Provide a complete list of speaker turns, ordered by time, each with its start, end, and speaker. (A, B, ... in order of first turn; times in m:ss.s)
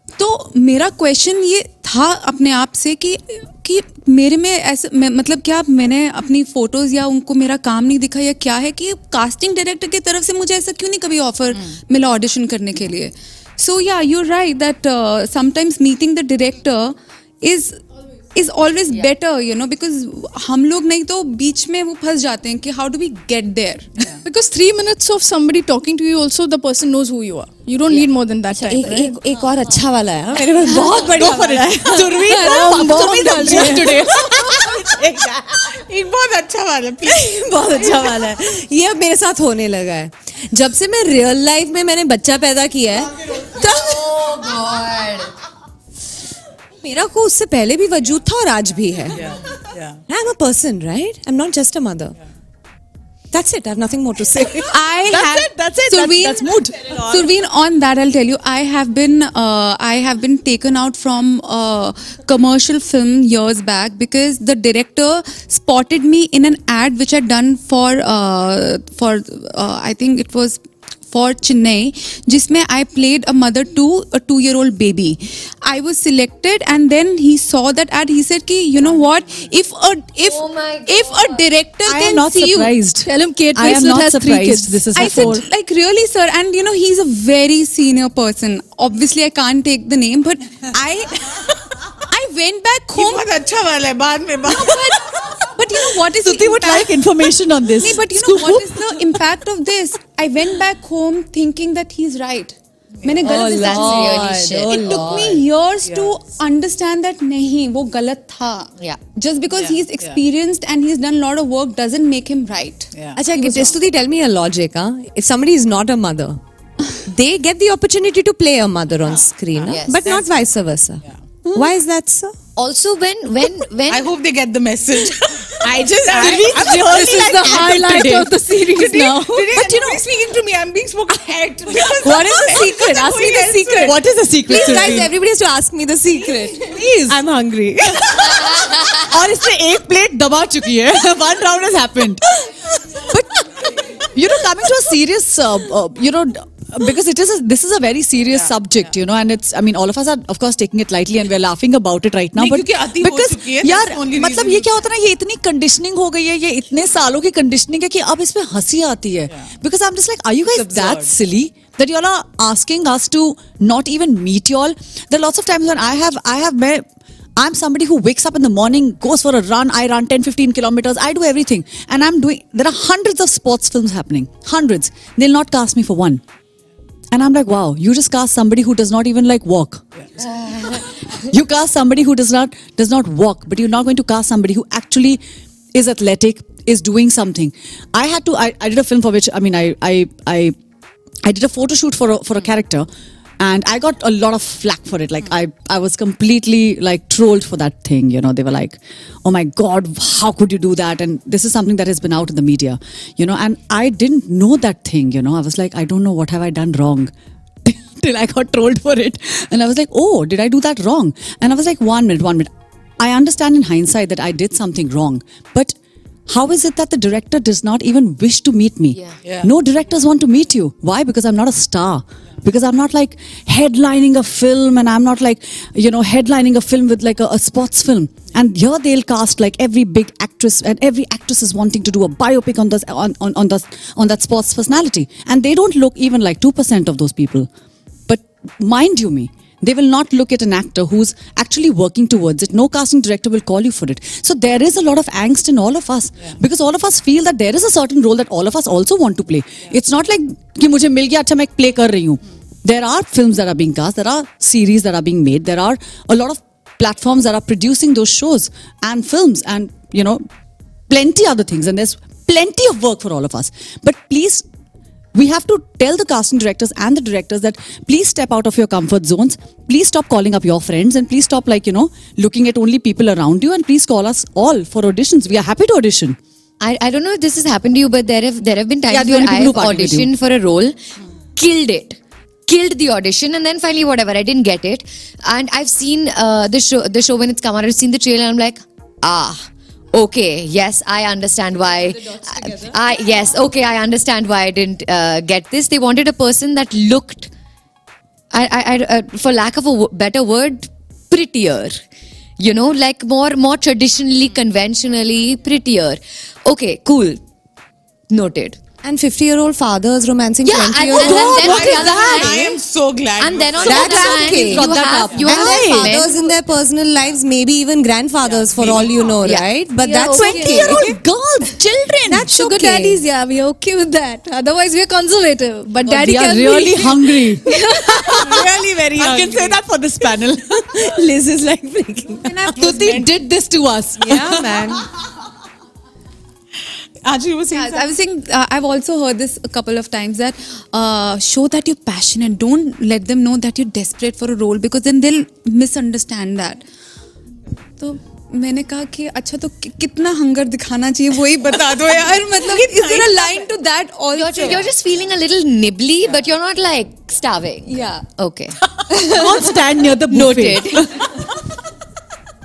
0:00.2-0:17.8 A
0:18.3-0:24.0 A
0:24.2-0:29.2 B
0:28.6-0:35.8 C
0:30.6-0:34.6 D
0:32.5-0:34.0 B
0:35.7-0:38.1 E
0:37.0-0:44.3 C
0:43.3-0:45.3 F
0:46.8-0:49.3 C
0:49.1-0:50.0 E
0:50.1-0:52.2 C
0:53.3-0:54.7 C
0:54.7-1:22.7 A
0:55.1-0:57.2 D
1:20.2-1:21.4 F
1:21.8-1:25.4 D
1:23.0-1:25.4 B
1:24.9-1:31.5 A
1:32.1-1:33.2 A
1:33.0-1:35.5 E
1:34.5-1:37.0 A
1:36.1-1:38.9 D
1:37.8-1:53.8 A
1:43.0-1:43.3 E
1:43.2-1:45.4 C
1:43.3-1:45.4 F
1:45.9-1:46.1 E
1:49.5-1:50.2 E
1:53.2-1:56.4 C
1:57.0-2:02.4 C
1:59.0-2:00.3 E
1:59.6-2:00.0 F
2:02.6-2:04.1 F
2:03.9-2:14.0 E
2:05.9-2:08.3 D
2:06.4-2:09.5 B
2:06.8-2:07.3 C
2:09.5-2:10.0 D
2:11.8-2:18.8 C
2:12.0-2:13.0 D
2:13.8-2:15.1 D
2:16.5-2:17.2 D
2:19.0-2:22.2 D
2:23.0-2:46.8 D
2:32.4-2:34.7 E
2:40.5-2:41.1 E
2:47.4-2:56.2 D
2:57.1-2:59.8 D
3:01.2-3:05.2 D
3:05.7-3:10.5 D
3:11.2-3:12.9 D
3:13.4-3:27.1 D
3:27.6-3:35.7 D
3:36.3-3:57.5 D
3:39.2-3:39.5 E
3:58.1-4:20.2 D
4:20.9-4:24.4 D
4:25.1-4:36.2 D
4:36.6-4:40.8 F
4:38.9-4:40.1 D
4:41.3-4:57.3 F
4:58.3-5:01.8 F
5:02.4-5:07.2 F
5:08.1-5:08.6 F
5:08.8-5:12.1 C
5:10.4-5:12.6 F
5:11.0-5:14.4 E
5:11.0-5:12.1 D
5:13.2-5:16.3 F
5:13.6-5:20.8 C
5:14.1-5:16.0 D
5:18.2-5:19.2 E
5:19.8-5:20.7 A
5:20.0-5:20.9 B
5:20.1-5:22.3 D
5:22.1-5:23.0 C
5:22.2-5:28.3 B
5:25.8-5:28.2 D
5:28.0-5:29.6 E
5:28.9-5:30.8 D
5:30.7-5:32.7 C
5:32.3-5:33.0 A
5:32.6-5:34.7 D
5:32.6-5:33.0 E
5:34.0-5:34.8 C
5:37.0-5:37.9 E
5:37.5-5:46.6 A
5:47.8-5:54.7 A
5:51.5-5:53.5 E
5:54.1-5:59.5 F
5:56.0-5:56.3 E
5:57.6-5:58.0 A
5:59.1-6:01.1 D
6:00.1-6:01.1 F